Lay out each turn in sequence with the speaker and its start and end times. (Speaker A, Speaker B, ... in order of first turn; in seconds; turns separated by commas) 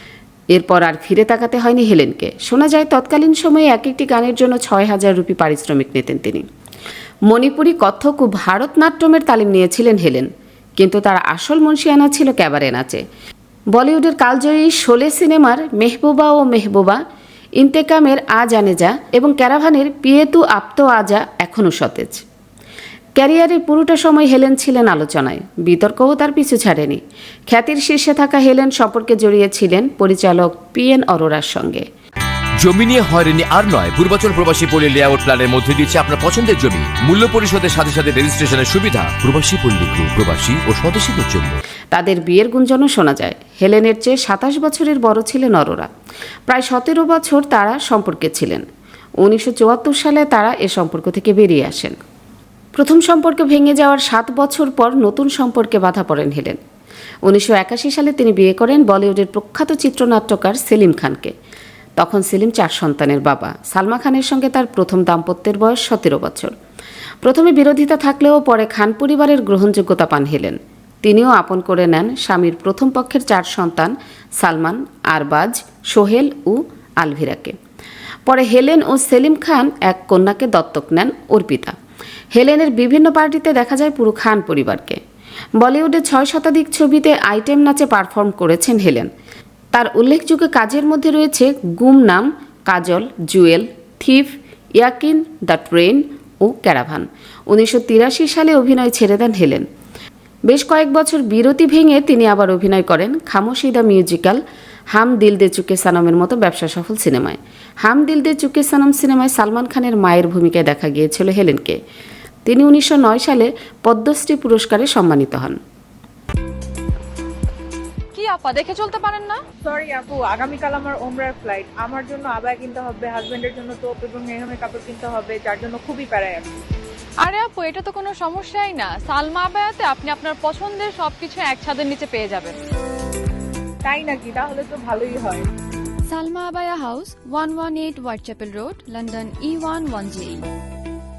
Speaker A: 0.5-6.4, Speaker A: 7.3-13.0, Speaker A: 13.8-17.0, Speaker A: 17.6-22.2, Speaker A: 23.1-31.8, Speaker B: 32.6-41.6, Speaker A: 41.9-45.9, Speaker A: 46.5-48.6, Speaker A: 49.2-52.0, Speaker A: 52.8-56.6, Speaker A: 57.2-61.3, Speaker A: 62.0-66.5, Speaker A: 67.2-77.5, Speaker A: 78.2-81.7, Speaker A: 82.3-85.0, Speaker A: 85.6-89.1, Speaker A: 89.7-99.6, Speaker A: 100.5-104.4, Speaker A: 104.9-111.8, Speaker A: 112.5-115.6, Speaker C: 118.1-119.4, Speaker D: 119.6-126.6, Speaker C: 127.2-132.5, Speaker D: 133.8-135.4, Speaker E: 136.1-140.4